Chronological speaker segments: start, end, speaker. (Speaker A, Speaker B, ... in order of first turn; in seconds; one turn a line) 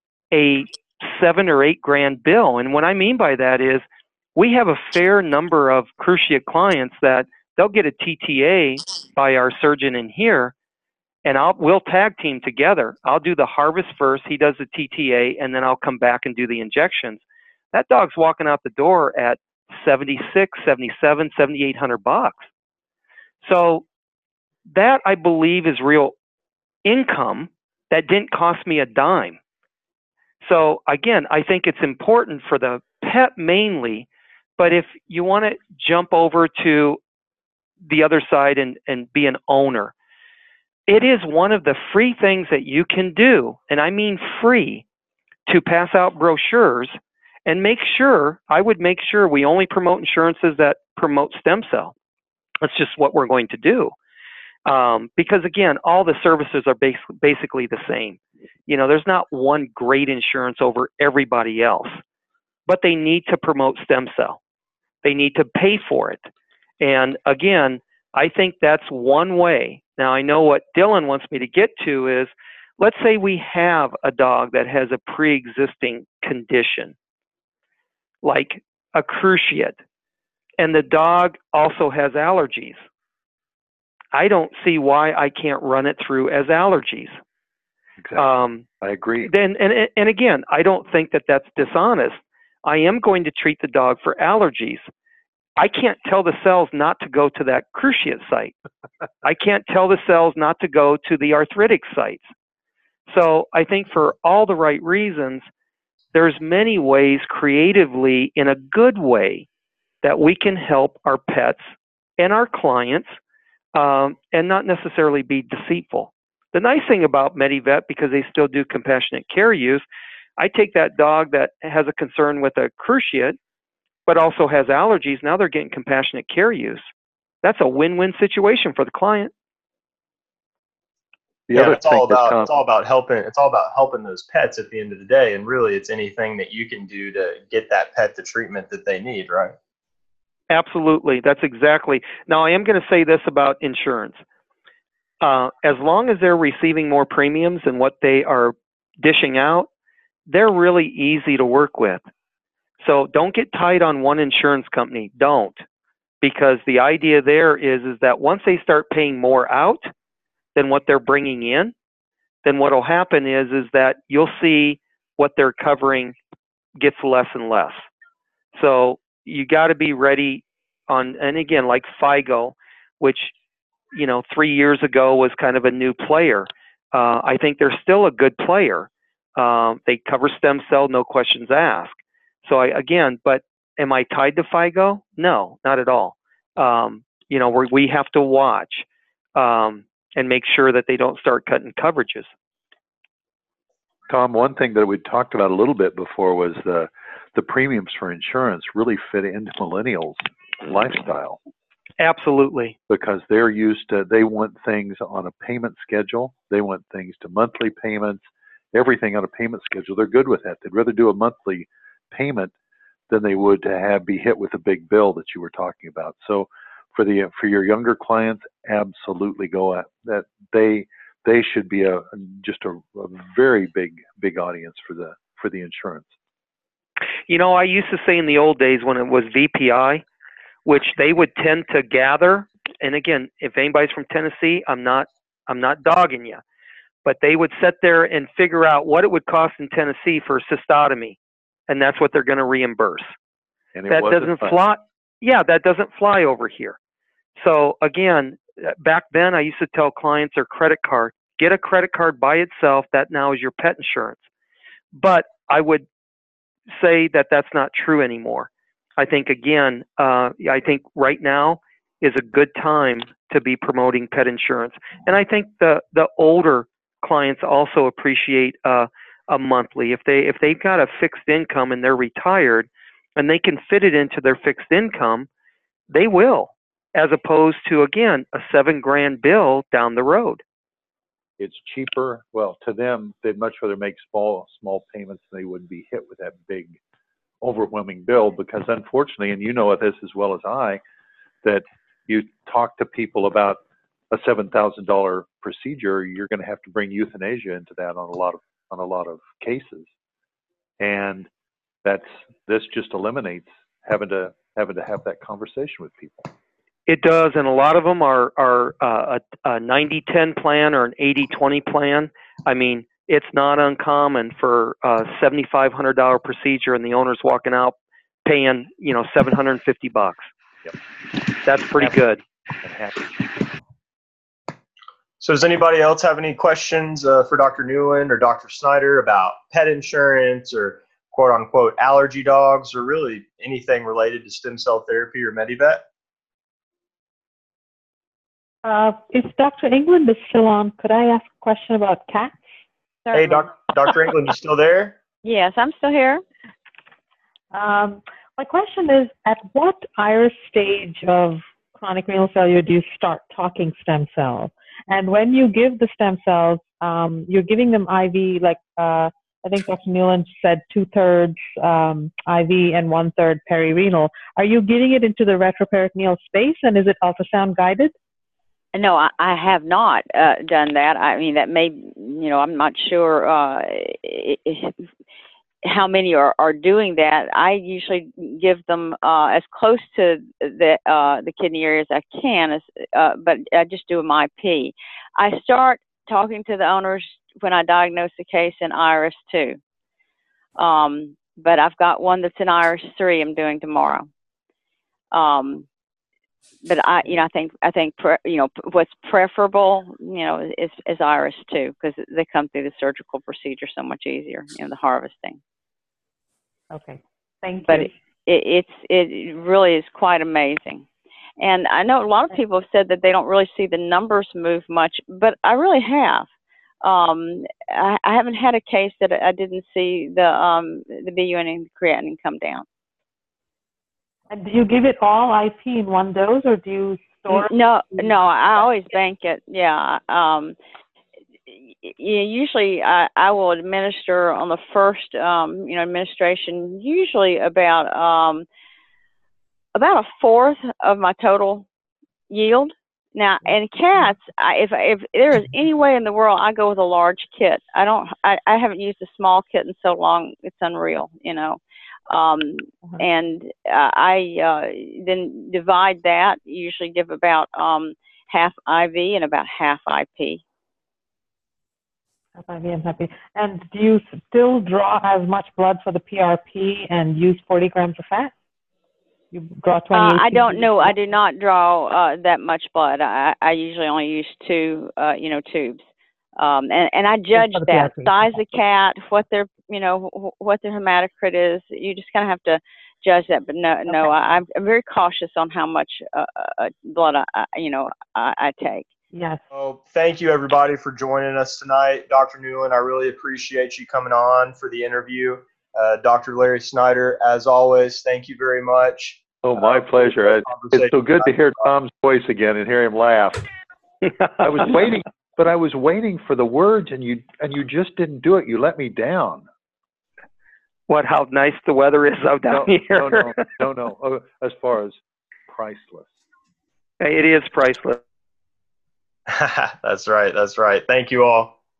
Speaker A: 0.3-3.8
Speaker A: 4.3-10.5
Speaker A: 11.2-17.2
Speaker A: 17.7-22.5
Speaker A: 23.4-23.8
Speaker A: 24.7-26.1
Speaker A: 26.8-29.4
Speaker A: 30.4-34.1
Speaker A: 34.6-37.0
Speaker A: 37.8-39.9
Speaker A: 40.9-44.8
Speaker A: 45.5-51.9
Speaker A: 52.6-53.9
Speaker A: 54.6-62.0
Speaker A: 62.7-64.4
Speaker A: 65.0-66.3
Speaker A: 66.8-76.9
Speaker A: 78.2-79.8
Speaker A: 80.6-82.8
Speaker A: 84.1-87.2
Speaker B: 88.0-88.3
Speaker A: 88.2-88.6
Speaker B: 88.8-89.3
Speaker A: 89.2-94.9
Speaker A: 95.6-98.5
Speaker A: 99.2-102.3
Speaker A: 103.1-105.5
Speaker A: 106.1-109.5
Speaker A: 110.0-111.6
Speaker A: 112.2-113.2
Speaker A: 113.7-119.8
Speaker A: 120.4-123.4
Speaker A: 124.0-126.9
Speaker A: 127.4-129.3
Speaker B: 131.5-132.5
Speaker C: 131.5-139.5
Speaker A: 140.5-144.2
Speaker A: 145.2-149.7
Speaker A: 150.3-152.0
Speaker A: 152.8-155.6
Speaker A: 156.2-159.9
Speaker A: 160.5-161.7
Speaker A: 162.4-166.2
Speaker A: 166.8-167.9
Speaker A: 168.5-173.3
Speaker A: 173.9-192.3
Speaker B: 194.1-201.4
Speaker A: 202.0-202.7
Speaker B: 202.9-212.5
Speaker B: 213.1-226.1
Speaker A: 227.3-230.0
Speaker A: 230.7-236.4
Speaker A: 237.0-243.1
Speaker B: 243.7-244.5
Speaker A: 243.9-246.8
Speaker A: 247.4-254.2
Speaker A: 254.9-255.8
Speaker A: 256.7-275.3
Speaker A: 275.9-280.4
Speaker B: 281.4-286.8
Speaker B: 287.4-290.8
Speaker B: 291.4-299.9
Speaker B: 300.8-301.3
Speaker B: 301.8-306.3
Speaker A: 306.9-320.3
Speaker A: 321.4-322.2
Speaker B: 322.6-323.1
Speaker C: 325.2-335.8
Speaker D: 338.6-342.4
Speaker E: 343.1-343.4
Speaker C: 343.1-345.0
Speaker E: 345.2-346.2
Speaker D: 347.5-367.9
Speaker E: 368.7-374.7
Speaker E: 375.6-389.6
Speaker E: 390.6-394.1
Speaker E: 395.1-395.7
Speaker E: 396.6-405.4
Speaker D: 406.7-407.9
Speaker E: 407.6-410.9
Speaker E: 411.4-416.3
Speaker E: 416.8-422.6
Speaker D: 424.3-428.3
Speaker E: 427.3-430.6
Speaker E: 431.8-438.4
Speaker E: 439.7-441.6
Speaker E: 442.3-451.6
Speaker E: 452.1-460.4
Speaker D: 462.4-468.3
Speaker D: 469.3-470.9
Speaker E: 469.9-475.8
Speaker E: 476.4-488.9
Speaker D: 477.3-478.3
Speaker D: 489.1-489.4
Speaker C: 489.5-501.4
Speaker B: 499.4-503.5
Speaker B: 504.4-509.4
Speaker A: 510.9-513.4
Speaker B: 512.4-516.2
Speaker A: 517.0-518.0
Speaker C: 519.3-521.5